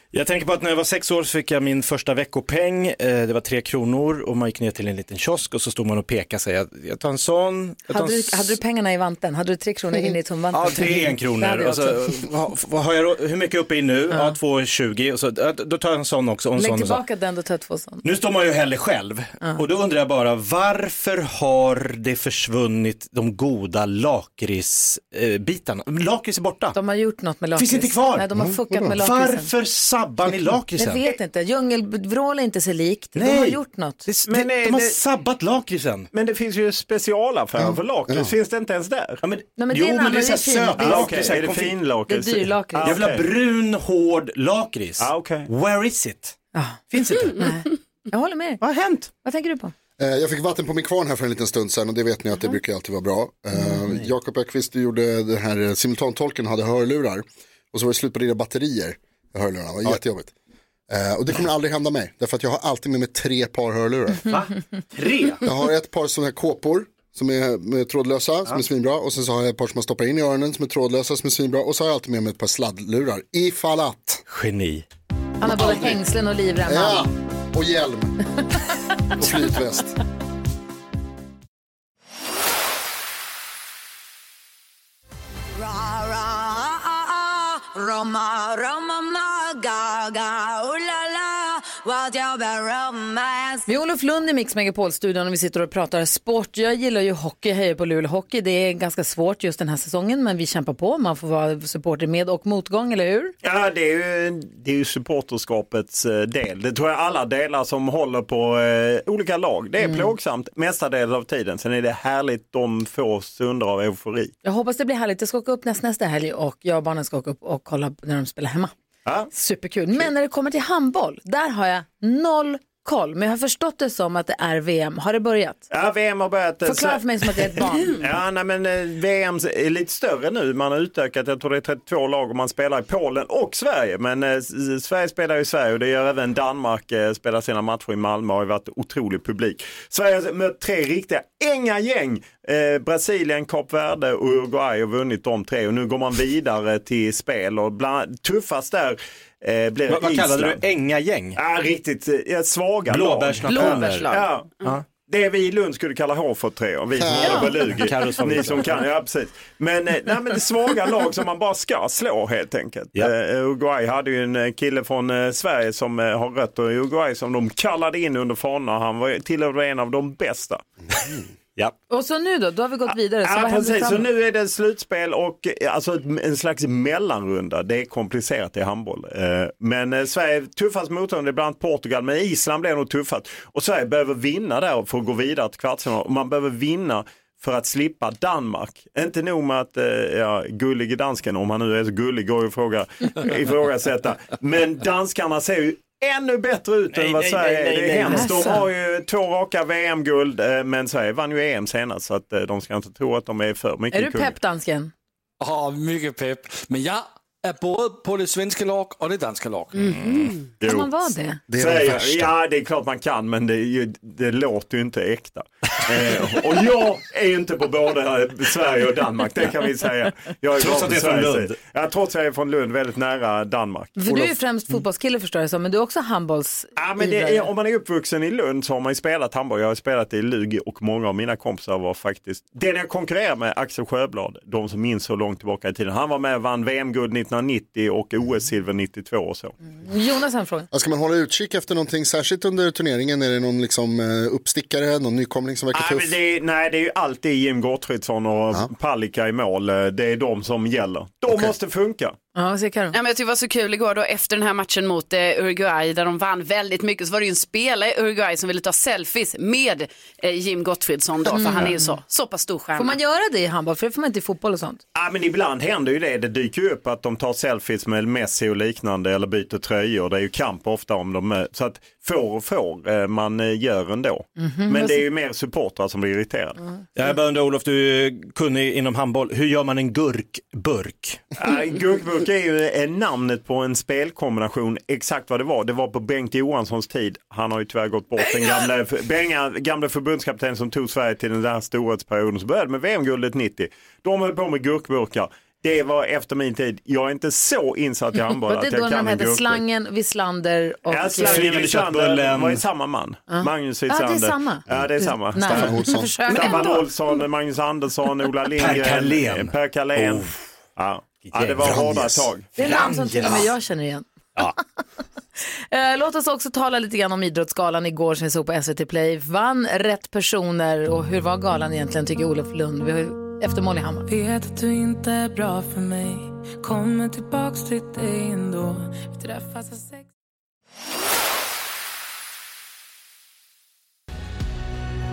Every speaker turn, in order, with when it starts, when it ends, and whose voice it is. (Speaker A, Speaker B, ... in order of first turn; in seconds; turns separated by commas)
Speaker A: 0.1-8.6, Speaker B: 7.9-12.2, Speaker A: 10.5-17.0, Speaker B: 16.6-18.0, Speaker A: 18.0-26.8, Speaker B: 26.7-29.5, Speaker A: 27.6-28.3, Speaker C: 28.4-28.8, Speaker A: 28.9-31.0, Speaker B: 30.8-34.0, Speaker A: 33.1-36.1, Speaker D: 34.3-35.0, Speaker D: 36.1-39.2, Speaker C: 37.6-38.3, Speaker A: 39.2-41.8, Speaker B: 39.6-41.2, Speaker D: 40.8-43.3, Speaker B: 42.1-43.0, Speaker A: 42.8-46.4, Speaker D: 45.0-45.5, Speaker B: 46.5-48.6, Speaker A: 46.9-47.5, Speaker A: 48.6-49.1, Speaker B: 49.2-49.7, Speaker C: 50.0-60.3, Speaker C: 60.9-64.3, Speaker A: 64.2-65.4, Speaker C: 65.4-74.2, Speaker A: 74.3-74.8, Speaker B: 75.4-77.1, Speaker C: 75.4-76.0, Speaker C: 76.7-78.2, Speaker C: 79.2-80.0, Speaker E: 85.6-93.6, Speaker B: 93.7-103.3, Speaker D: 103.4-114.3, Speaker B: 109.8-110.1, Speaker B: 114.4-118.7, Speaker B: 119.3-125.6, Speaker D: 125.7-150.6, Speaker B: 126.6-128.0, Speaker A: 149.9-151.4, Speaker D: 151.3-170.6, Speaker A: 152.9-154.9, Speaker F: 153.4-154.7, Speaker C: 157.0-157.6, Speaker A: 157.2-158.8, Speaker B: 171.9-174.1, Speaker D: 173.2-204.3, Speaker A: 196.9-198.6, Speaker B: 198.1-198.6, Speaker B: 203.9-204.9, Speaker G: 205.4-209.9, Speaker F: 209.7-210.4, Speaker A: 209.8-210.3, Speaker D: 210.6-210.9, Speaker B: 210.6-211.4, Speaker C: 211.5-212.3, Speaker D: 211.5-224.2, Speaker A: 220.6-221.6, Speaker B: 224.0-227.5, Speaker D: 226.8-239.5, Speaker B: 239.7-240.7, Speaker C: 240.7-246.2, Speaker D: 245.7-252.2, Speaker B: 252.3-252.9, Speaker F: 252.9-262.9, Speaker B: 261.3-261.9, Speaker B: 262.8-264.8, Speaker D: 264.9-276.6, Speaker B: 274.4-275.0, Speaker A: 276.9-281.2, Speaker D: 281.3-299.6, Speaker B: 298.4-301.7, Speaker D: 300.9-305.7, Speaker A: 301.1-302.6, Speaker B: 303.3-306.8, Speaker C: 305.4-306.1, Speaker D: 306.2-312.5, Speaker A: 308.6-310.4, Speaker A: 311.2-313.5, Speaker C: 311.6-312.2, Speaker B: 312.6-314.1, Speaker B: 315.7-324.1, Speaker H: 324.1-330.1